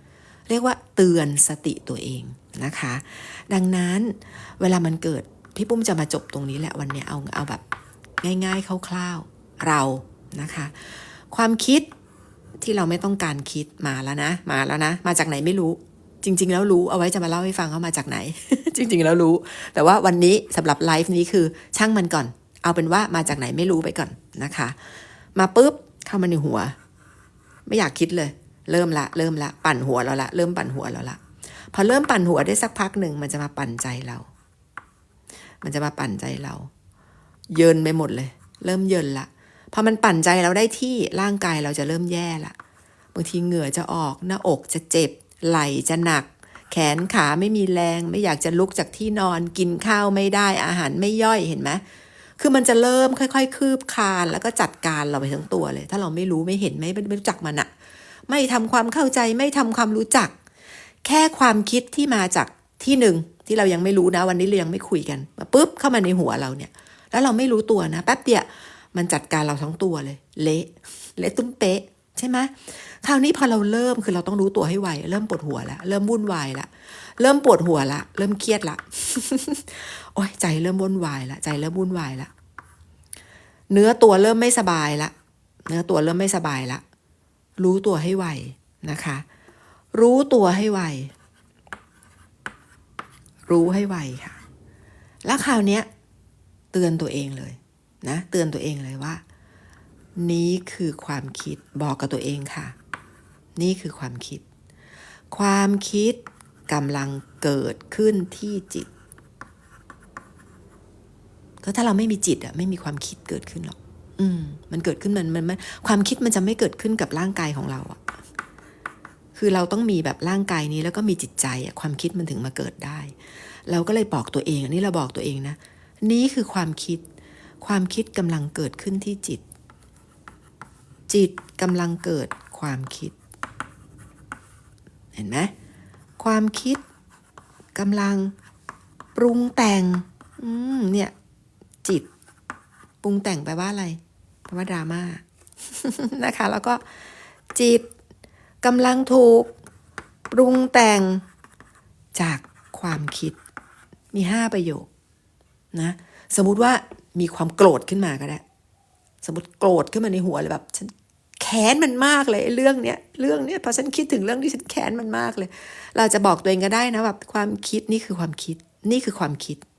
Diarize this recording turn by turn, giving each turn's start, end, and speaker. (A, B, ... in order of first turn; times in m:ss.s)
0:00.5-0:07.6 A
0:08.2-0:11.9 A
0:12.6-0:24.8 A
0:25.3-0:26.8 A
0:27.6-0:34.3 A
0:35.6-0:36.7 A
0:37.5-0:42.5 A
0:43.1-0:51.8 A
0:52.4-0:57.7 A
0:58.3-1:00.3 A
1:01.0-1:22.3 A
1:23.7-1:25.1 A
1:25.6-1:26.8 A
1:27.6-1:29.2 A
1:29.9-1:31.1 A
1:33.5-1:34.4 A
1:35.2-1:35.9 A
1:36.7-1:39.2 A
1:40.2-1:42.7 A
1:43.6-1:44.4 A
1:45.3-1:48.9 A
1:51.6-1:58.0 A
1:59.3-2:07.0 A
2:07.6-2:09.4 A
2:11.1-2:13.1 A
2:15.1-2:15.5 A
2:16.2-2:16.8 A
2:17.7-2:18.3 A
2:19.2-2:21.1 A
2:23.0-2:26.8 A
2:27.5-2:27.9 A
2:28.6-2:29.5 A
2:30.3-2:31.2 A
2:32.1-2:33.4 A
2:34.1-2:34.9 A
2:35.7-2:38.4 A
2:39.2-2:49.6 A